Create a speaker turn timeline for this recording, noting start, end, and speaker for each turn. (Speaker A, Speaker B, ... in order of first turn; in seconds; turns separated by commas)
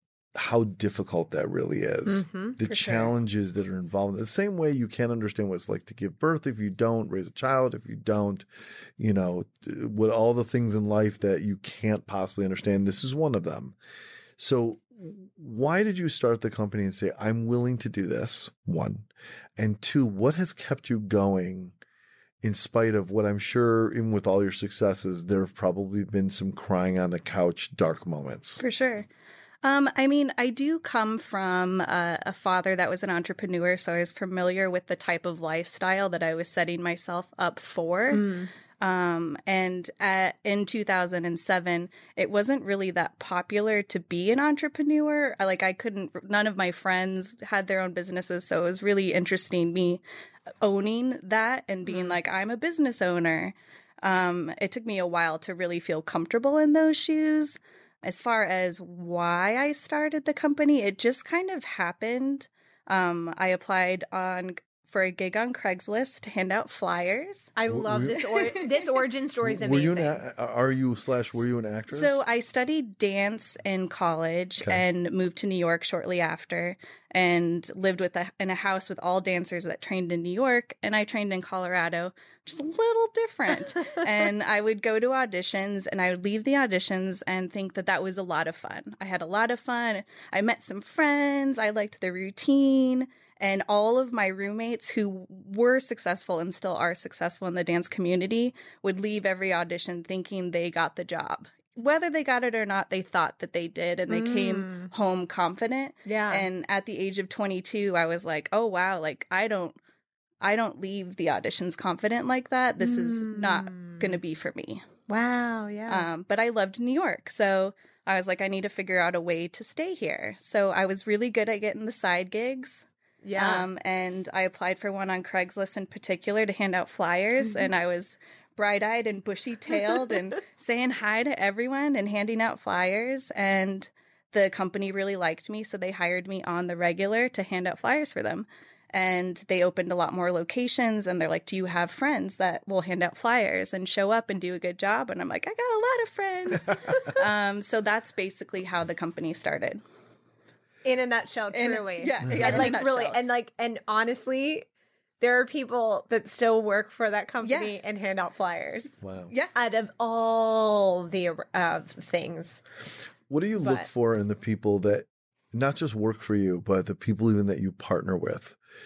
Speaker A: 0.3-8.5, Speaker B: 2.1-2.6, Speaker C: 2.6-3.1, Speaker A: 9.0-13.8, Speaker A: 14.4-21.8, Speaker A: 22.4-28.6, Speaker C: 28.6-29.1, Speaker C: 29.6-50.0, Speaker B: 38.1-38.5, Speaker C: 50.6-67.5, Speaker B: 51.9-52.2, Speaker B: 67.6-70.2, Speaker A: 67.7-68.3, Speaker A: 69.4-72.2, Speaker C: 71.9-109.8, Speaker B: 104.1-104.9, Speaker B: 106.1-106.5, Speaker C: 110.4-114.8, Speaker B: 112.8-114.2, Speaker B: 115.1-116.1, Speaker C: 115.9-149.8, Speaker B: 123.2-123.7, Speaker B: 150.8-154.7, Speaker C: 151.5-153.2, Speaker A: 152.3-152.6, Speaker B: 155.2-159.0, Speaker C: 157.4-157.7, Speaker A: 159.0-159.3, Speaker B: 159.6-162.6, Speaker A: 163.3-168.6, Speaker B: 163.6-163.9